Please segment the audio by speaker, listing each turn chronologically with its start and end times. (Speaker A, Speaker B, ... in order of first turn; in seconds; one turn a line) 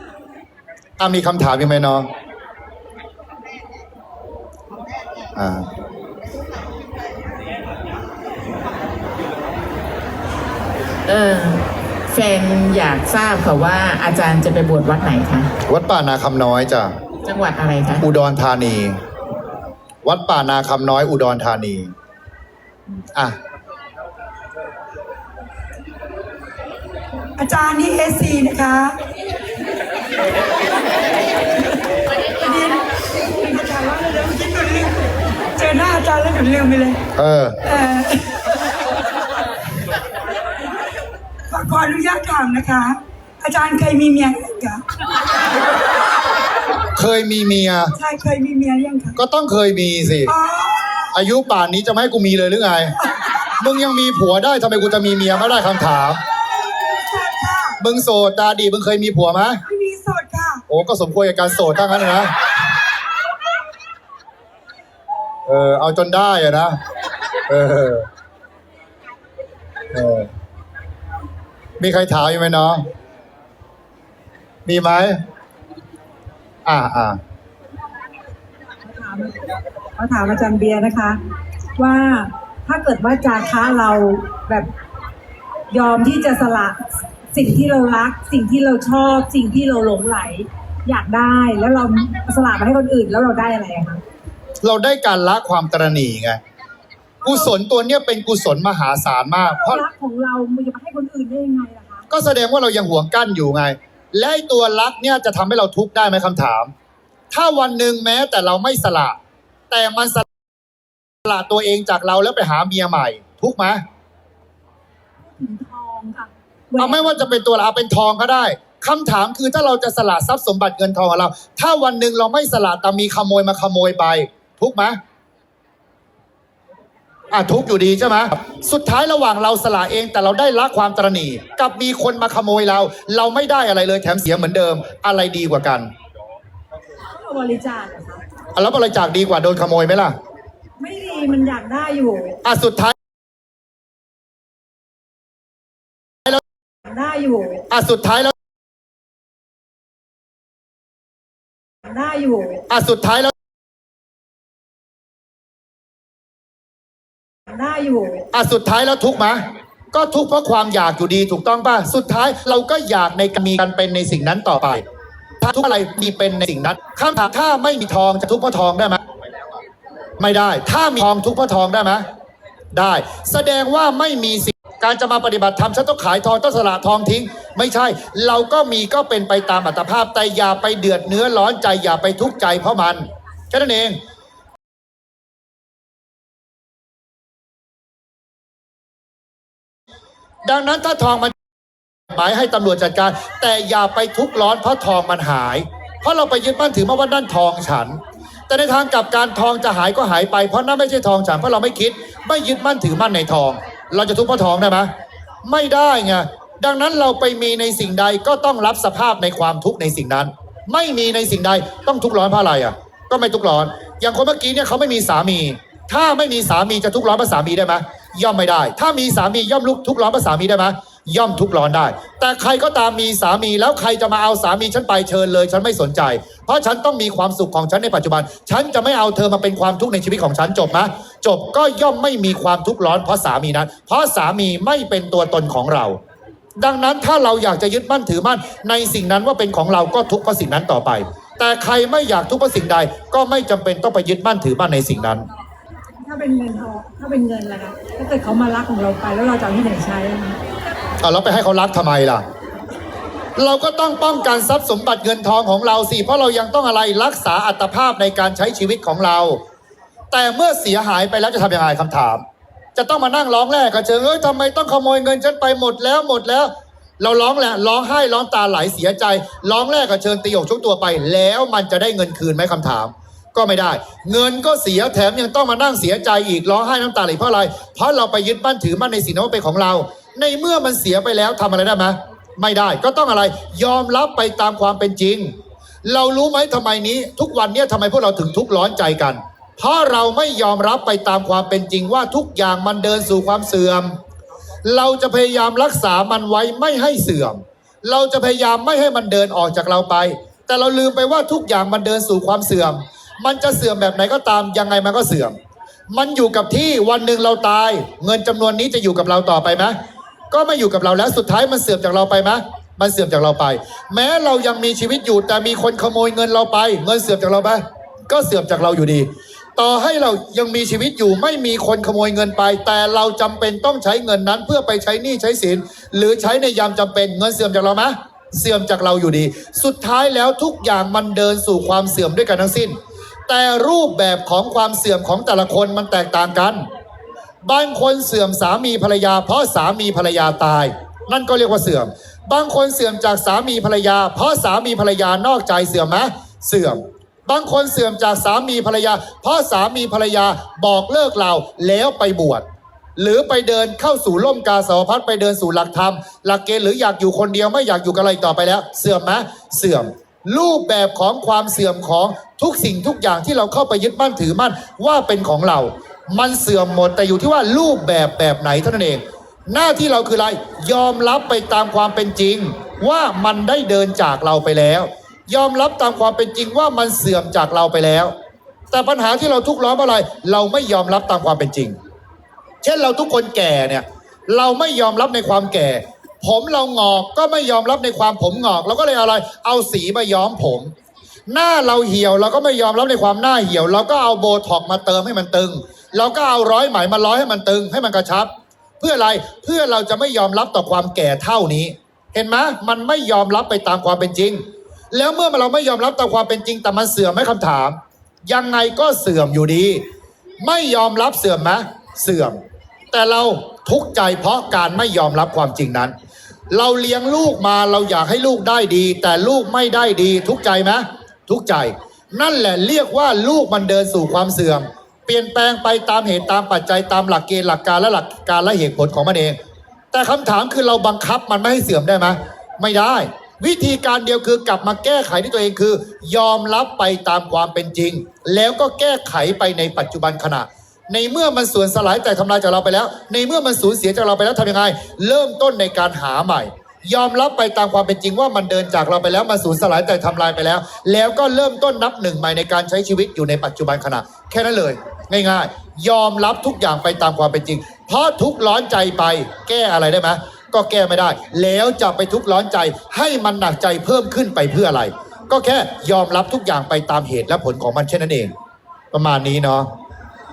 Speaker A: 1.0-2.1
Speaker A: 5.3-5.7
Speaker B: 11.1-15.5
Speaker A: 15.7-16.9
Speaker B: 17.2-18.0
Speaker A: 18.0-19.0
Speaker A: 20.0-21.9
Speaker C: 27.4-28.9
Speaker C: 32.4-35.0
Speaker C: 35.6-37.0
Speaker A: 37.2-37.6
Speaker C: 37.6-38.4
Speaker C: 41.5-44.8
Speaker A: 46.9-47.9
Speaker C: 48.0-49.1
Speaker A: 49.1-50.3
Speaker C: 50.3-50.9
Speaker A: 51.1-56.2
Speaker C: 56.8-57.8
Speaker A: 57.8-59.6
Speaker C: 59.7-60.6
Speaker A: 60.7-62.3
Speaker A: 65.5-66.8
Speaker A: 67.5-68.1
Speaker A: 69.9-70.3
Speaker A: 71.8-72.8
Speaker A: 74.7-75.2
Speaker A: 76.6-77.2
Speaker D: 78.8-81.2
Speaker D: 81.8-84.7
Speaker D: 85.7-86.8
Speaker D: 87.3-94.0
Speaker A: 94.6-96.4
Speaker A: 97.2-99.8
Speaker D: 99.6-102.1
Speaker A: 102.1-106.7
Speaker A: 107.3-109.2
Speaker A: 109.7-110.2
Speaker A: 111.2-113.8
Speaker D: 115.2-117.1
Speaker A: 116.8-125.0
Speaker A: 127.3-135.9
Speaker D: 137.1-138.2
Speaker A: 138.6-140.1
Speaker D: 140.8-142.4
Speaker A: 142.4-142.9
Speaker D: 146.9-147.6
Speaker A: 147.7-148.3
Speaker D: 151.9-152.6
Speaker A: 152.7-153.3
Speaker D: 157.5-158.2
Speaker A: 158.3-164.8
Speaker A: 165.4-169.0
Speaker A: 170.2-172.1
Speaker A: 172.7-184.0
Speaker A: 190.4-191.4
Speaker A: 192.1-204.9
Speaker A: 205.4-236.0
Speaker A: 236.6-245.3
Speaker D: 246.0-250.4
Speaker A: 251.0-252.2
Speaker A: 253.4-259.4
Speaker A: 260.1-262.2
Speaker A: 262.8-293.9
Speaker A: 294.6-305.4
Speaker A: 305.9-309.7
Speaker A: 310.3-332.8
Speaker A: 333.3-336.6
Speaker A: 337.4-352.4
Speaker A: 353.0-378.1
Speaker A: 378.7-381.8
Speaker A: 382.6-390.7
Speaker A: 391.3-398.3
Speaker A: 398.8-409.8
Speaker A: 410.4-412.4
Speaker A: 412.9-415.9
Speaker A: 416.5-429.4
Speaker A: 429.9-468.3
Speaker A: 468.9-469.7